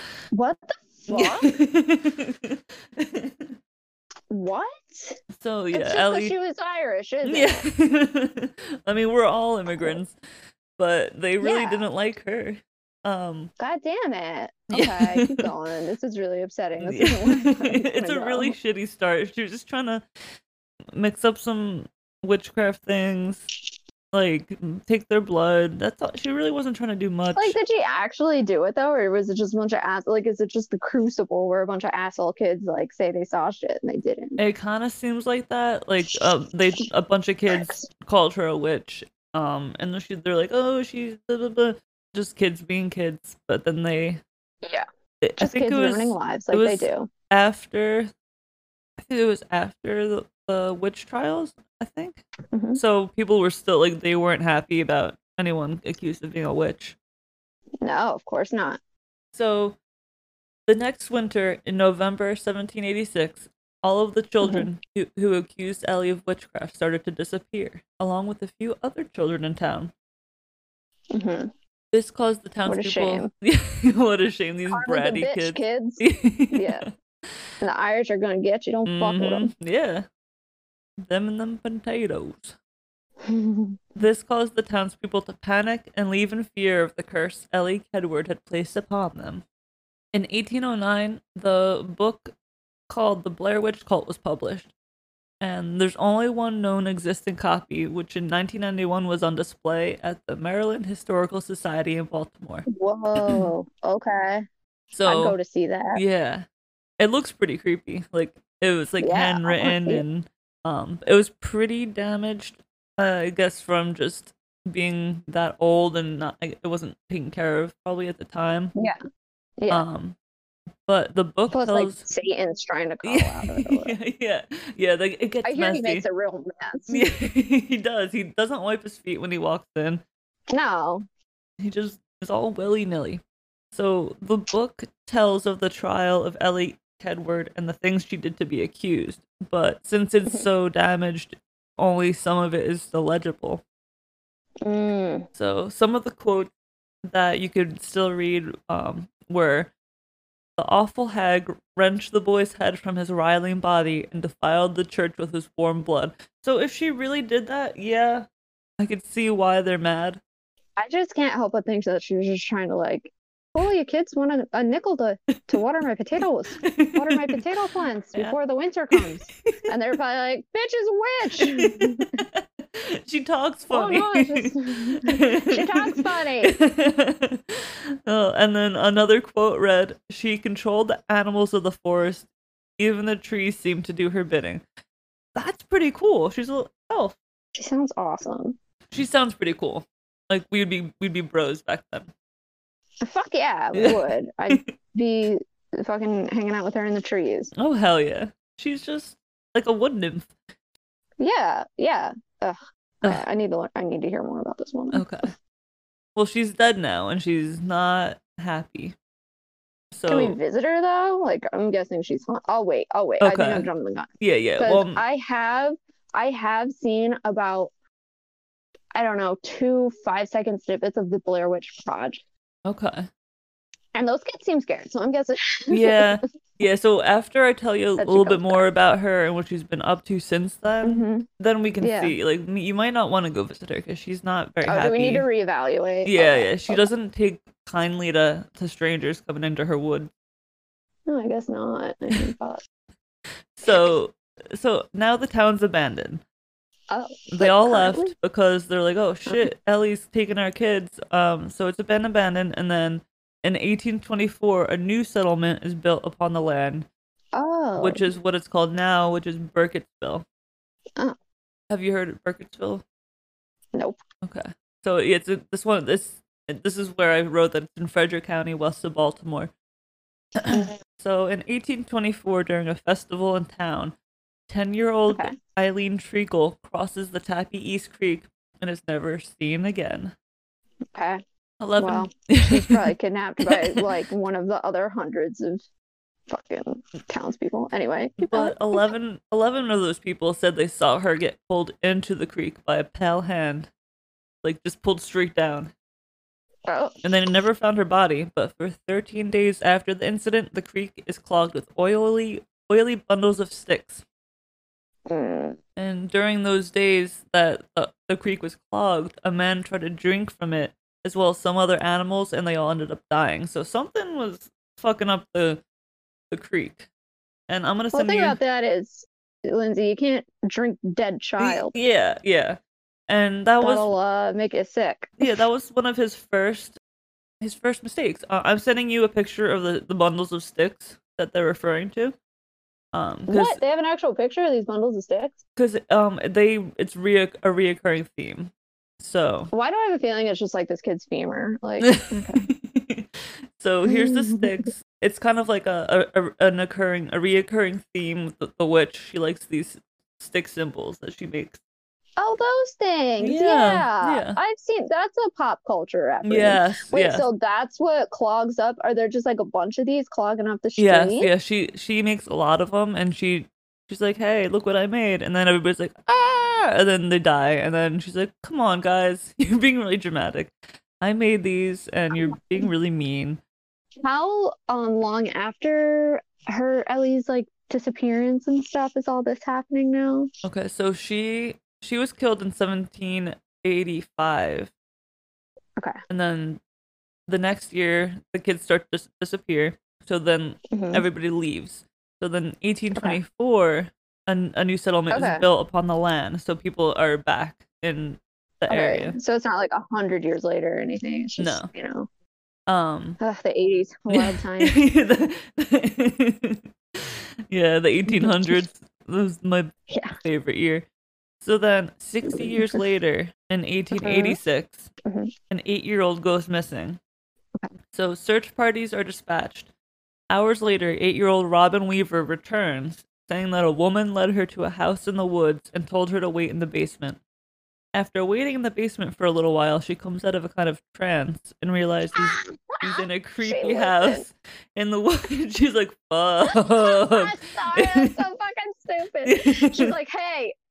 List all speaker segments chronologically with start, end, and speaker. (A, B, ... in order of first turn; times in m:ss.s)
0:00.3-0:01.5 A
0:01.1-0:03.6 B
0:04.3-0:05.2 A
0:05.3-0:06.3 B
0:05.7-0:07.7 A
0:07.2-0:10.2 B
0:09.7-0:10.0 A
0:10.8-0:13.5 B
0:11.4-0:11.9 A
0:13.6-0:18.6 A
0:14.7-0:15.5 B
0:16.8-0:20.0 B
0:20.9-0:23.5 B
0:24.1-0:27.6 B
0:27.3-0:34.4 A
0:34.4-0:44.2 B
0:37.5-0:37.9 A
0:45.2-0:48.1 B
0:45.4-0:47.1 A
0:49.0-0:52.2 B
0:52.5-0:52.8 A
0:52.8-0:57.0 B
0:57.8-0:58.8 A
0:59.3-0:59.8 B
1:00.7-1:09.9 B
1:04.4-1:04.7 A
1:11.1-1:11.5 A
1:11.9-1:16.9 B
1:12.6-1:13.3 A
1:14.7-1:16.8 A
1:17.6-1:19.5 A
1:18.8-1:20.0 B
1:21.0-1:22.6 B
1:23.2-1:23.8 A
1:24.0-1:29.4 B
1:30.1-1:32.3 B
1:32.9-1:34.7 B
1:35.4-1:42.6 B
1:42.7-1:44.4 A
1:43.2-1:43.5 B
1:44.9-1:45.4 B
1:45.0-1:46.0 A
1:45.9-1:46.4 B
1:47.0-1:58.7 B
1:49.0-1:50.0 A
1:59.6-1:59.8 A
1:59.7-2:00.2 B
2:00.9-2:02.0 B
2:01.5-2:04.0 A
2:03.0-2:06.0 B
2:05.4-2:07.1 A
2:06.9-2:10.0 B
2:10.5-2:11.0 A
2:11.6-2:23.6 B
2:24.6-2:25.3 A
2:25.3-2:26.5 B
2:27.0-2:29.7 B
2:30.6-2:38.3 B
2:38.8-2:40.2 B
2:40.8-2:52.1 A
2:46.6-2:47.4 B
2:51.3-3:04.6 B
2:53.7-2:56.6 A
3:05.3-3:07.2 B
3:07.5-3:08.6 A
3:08.9-3:12.1 B
3:13.0-3:17.5 A
3:17.6-3:20.3 B
3:21.2-3:25.3 A
3:24.9-3:25.3 B
3:26.2-3:29.0 B
3:29.9-3:30.4 B
3:30.1-3:37.7 A
3:33.2-3:33.7 B
3:34.2-3:35.0 B
3:38.9-3:42.2 A
3:42.6-3:43.1 B
3:43.9-3:46.1 A
3:45.7-3:55.2 B
3:48.0-3:48.7 A
3:50.8-3:51.2 A
3:51.8-3:52.2 A
3:54.6-3:56.9 A
3:56.0-4:00.1 B
4:01.1-4:02.6 A
4:03.6-4:06.2 B
4:03.7-4:03.9 A
4:06.9-4:08.1 A
4:07.3-4:16.9 B
4:17.3-4:18.1 A
4:17.8-4:20.2 B
4:21.7-4:22.8 B
4:24.2-4:29.5 B
4:30.4-4:33.9 B
4:34.5-4:40.1 B
4:35.1-4:35.4 A
4:40.9-4:41.2 A
4:41.6-4:42.8 B
4:41.8-4:45.6 A
4:43.4-4:43.8 B
4:46.3-4:48.9 A
4:48.2-4:53.7 B
4:54.4-4:55.7 B
4:56.7-4:56.9 A
4:57.0-5:04.0 B
5:05.1-5:05.6 A
5:05.8-5:15.6 B
5:16.3-5:16.9 B
5:17.5-5:18.4 B
5:17.9-5:21.7 A
5:21.4-5:23.9 B
5:23.6-5:25.4 A
5:25.2-5:26.8 B
5:27.4-5:32.2 B
5:32.9-5:33.6 B
5:33.3-5:35.4 A
5:35.6-5:39.5 B
5:39.5-5:42.4 A
5:41.8-5:51.6 B
5:43.8-5:44.7 A
5:52.2-6:01.3 A
5:53.2-5:54.4 B
5:56.2-5:57.2 B
6:00.8-6:13.4 B
6:12.1-6:12.7 A
6:14.0-6:20.3 A
6:20.4-6:24.7 B
6:26.1-6:26.6 B
6:27.3-6:39.2 B
6:30.7-6:31.0 A
6:32.9-6:33.2 A
6:35.1-6:35.4 A
6:38.7-6:42.1 A
6:41.4-6:41.7 B
6:42.7-6:43.2 B
6:43.2-6:44.8 A
6:44.1-6:50.8 B
6:48.1-6:48.6 A
6:49.9-6:50.2 A
6:51.4-6:54.9 B
6:52.2-6:52.8 A
6:53.9-6:54.4 A
6:55.0-6:55.3 A
6:55.5-6:57.0 B
6:57.9-6:59.7 B
7:00.3-7:07.2 B
7:07.9-7:18.1 B
7:12.2-7:14.2 A
7:16.4-7:20.5 A
7:19.2-7:19.9 B